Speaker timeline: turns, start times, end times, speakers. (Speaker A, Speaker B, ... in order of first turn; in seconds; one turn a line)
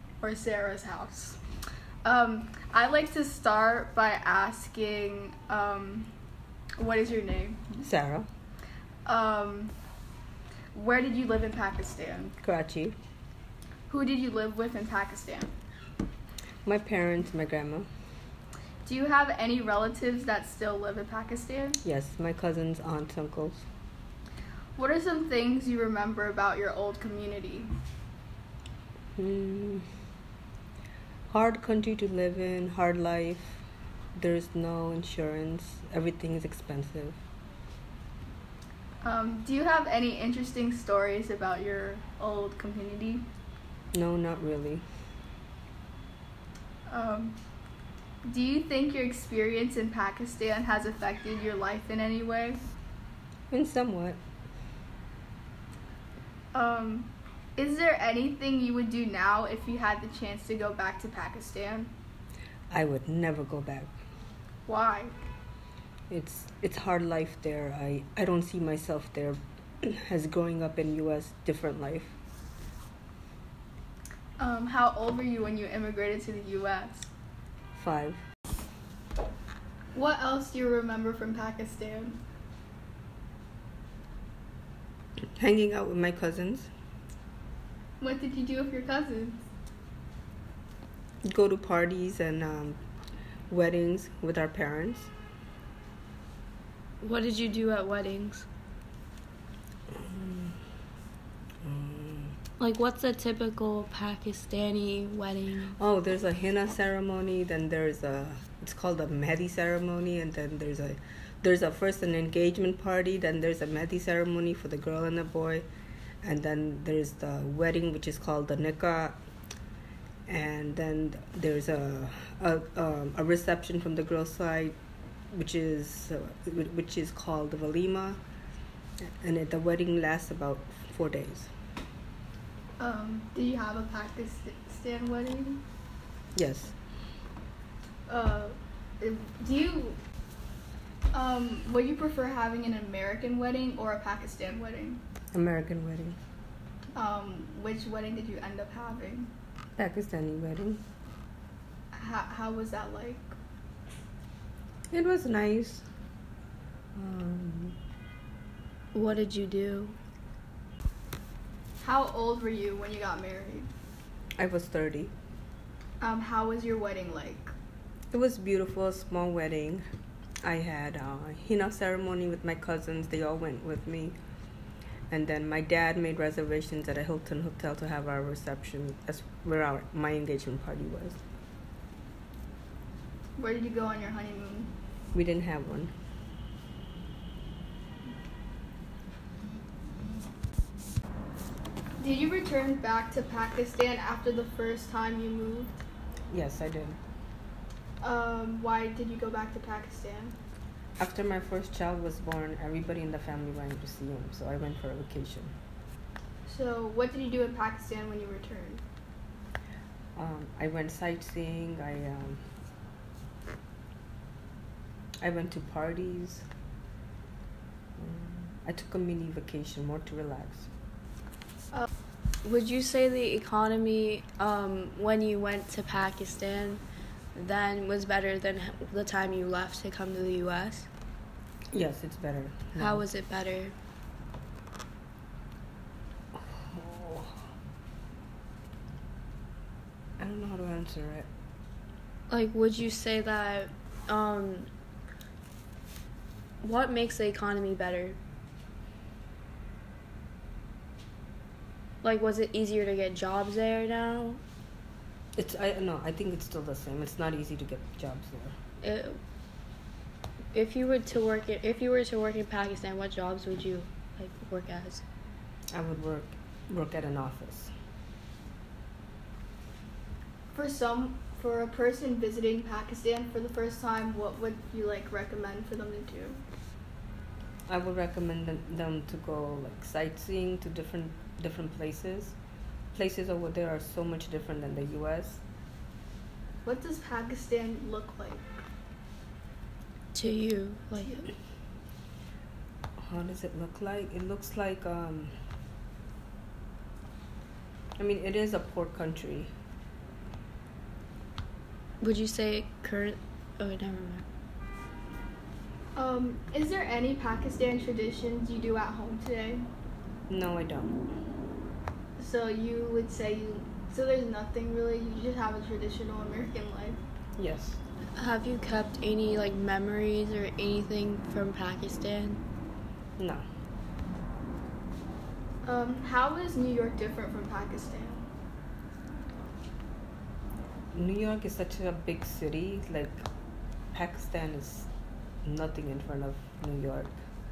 Speaker A: 0.2-1.4
Speaker A: 2.0-6.1
Speaker A: 6.8-7.8
Speaker B: 7.8-8.3
Speaker A: 9.1-9.7
Speaker A: 10.7-12.3
Speaker B: 12.4-12.9
Speaker A: 13.9-15.5
Speaker B: 16.6-17.9
Speaker A: 18.8-21.8
Speaker B: 21.8-23.6
Speaker A: 24.8-27.7
Speaker B: 29.2-29.9
Speaker B: 31.3-33.6
Speaker B: 34.1-37.2
Speaker A: 39.0-43.2
Speaker B: 43.9-44.8
Speaker A: 46.9-47.4
Speaker A: 48.2-52.7
Speaker B: 53.5-54.2
Speaker A: 56.5-61.9
Speaker B: 62.7-63.9
Speaker A: 64.7-65.2
Speaker B: 66.1-72.1
Speaker A: 74.4-77.1
Speaker B: 77.7-78.2
Speaker A: 79.9-82.2
Speaker B: 85.4-86.7
Speaker A: 88.0-89.4
Speaker B: 91.2-92.8
Speaker B: 93.5-95.1
Speaker C: 97.0-98.5
Speaker B: 99.9-100.6
Speaker B: 101.6-102.4
Speaker C: 102.6-105.8
Speaker B: 105.7-115.7
Speaker B: 116.2-119.2
Speaker B: 120.3-124.8
Speaker B: 125.3-128.2
Speaker B: 129.0-131.5
Speaker A: 132.8-135.6
Speaker B: 136.3-136.7
Speaker A: 138.1-140.0
Speaker A: 141.1-145.0
Speaker B: 145.3-146.2
Speaker A: 146.9-149.3
Speaker B: 149.8-150.8
Speaker A: 151.9-153.3
Speaker B: 154.9-155.8
Speaker B: 156.9-157.8
Speaker C: 158.9-159.9
Speaker A: 161.8-163.7
Speaker B: 164.4-165.1
Speaker A: 166.0-167.5
Speaker B: 168.1-169.8
Speaker B: 170.4-174.2
Speaker B: 175.1-181.2
Speaker A: 183.4-184.7
Speaker B: 185.1-185.9
Speaker A: 192.0-195.8
Speaker B: 196.3-197.0
Speaker A: 198.0-200.4
Speaker B: 201.0-205.5
Speaker A: 206.4-208.8
Speaker B: 210.2-212.4
Speaker B: 215.2-216.5
Speaker B: 218.0-220.7
Speaker C: 222.4-226.8
Speaker C: 227.3-230.9
Speaker B: 231.7-233.0
Speaker C: 232.7-233.7
Speaker B: 236.3-237.4
Speaker B: 240.2-241.3
Speaker C: 242.3-244.7
Speaker C: 246.6-248.2
Speaker C: 252.0-254.4
Speaker B: 255.3-258.5
Speaker C: 258.8-259.2
Speaker C: 260.5-265.0
Speaker B: 265.7-267.7
Speaker A: 270.5-276.4
Speaker B: 277.7-282.4
Speaker B: 282.9-285.4
Speaker A: 286.6-288.6
Speaker C: 290.1-291.3
Speaker B: 293.0-295.3
Speaker B: 298.0-299.5
Speaker C: 302.0-304.2
Speaker A: 305.9-309.7
Speaker B: 310.3-311.0
Speaker A: 312.2-317.0
Speaker B: 317.4-317.8
Speaker C: 318.1-322.4
Speaker A: 325.6-328.2
Speaker B: 330.9-333.2
Speaker B: 333.9-334.9
Speaker B: 335.4-337.1